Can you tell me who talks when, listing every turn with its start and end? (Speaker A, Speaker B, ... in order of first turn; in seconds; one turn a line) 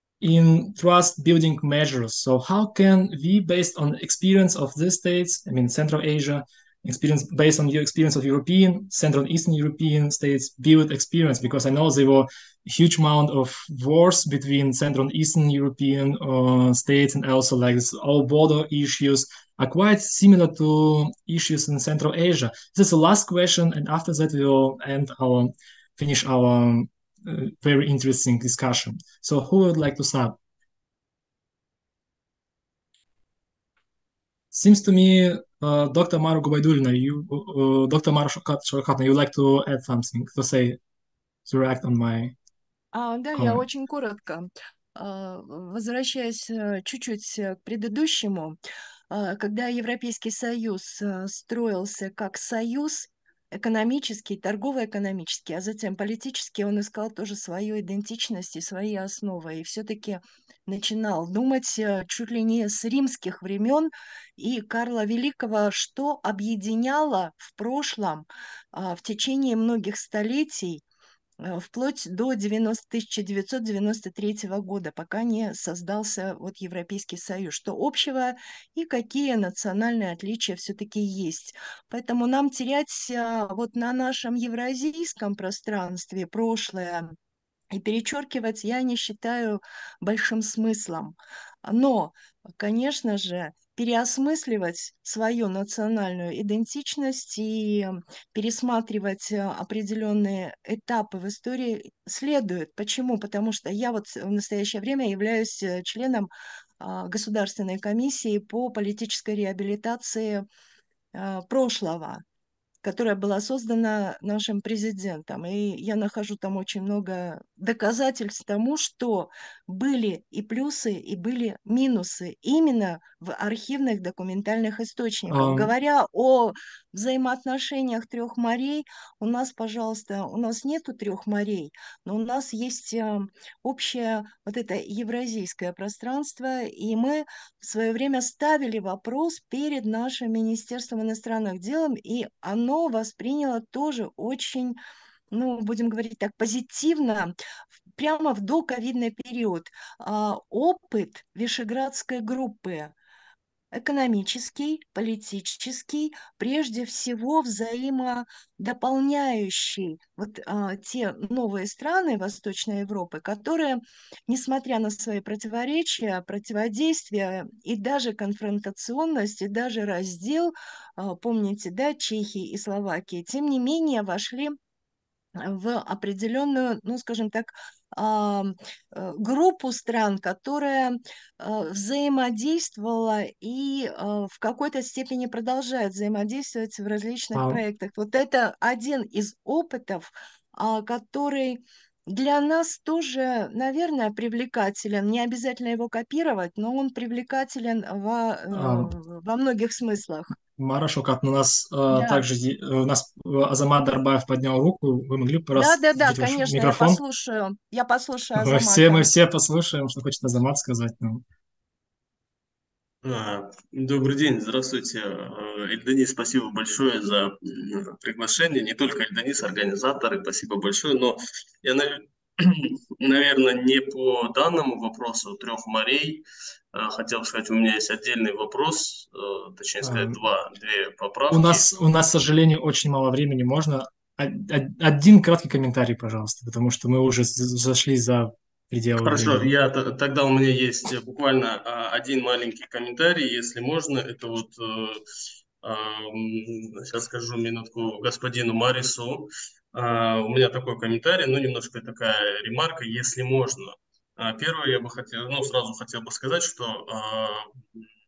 Speaker A: 0.2-30.4
Speaker A: 34.5-40.8
Speaker A: 41.5-42.3
Speaker B: 42.9-48.6
Speaker A: 43.3-43.6
Speaker B: 49.1-70.8
Speaker B: 71.4-87.1
Speaker B: 87.7-110.5
Speaker B: 111.1-112.2
Speaker B: 112.8-144.8
Speaker A: 125.3-125.7
Speaker B: 145.3-147.3
Speaker B: 148.0-152.9
Speaker B: 153.7-174.6
Speaker B: 175.4-200.3
Speaker A: 187.3-187.6
Speaker A: 198.5-198.9
Speaker A: 200.6-207.0
Speaker B: 201.9-202.2
Speaker B: 205.6-209.2
Speaker A: 208.3-211.2
Speaker C: 213.0-226.2
Speaker C: 226.7-231.7
Speaker A: 229.8-230.2
Speaker A: 231.3-239.5
Speaker C: 239.0-245.0
Speaker C: 245.6-257.5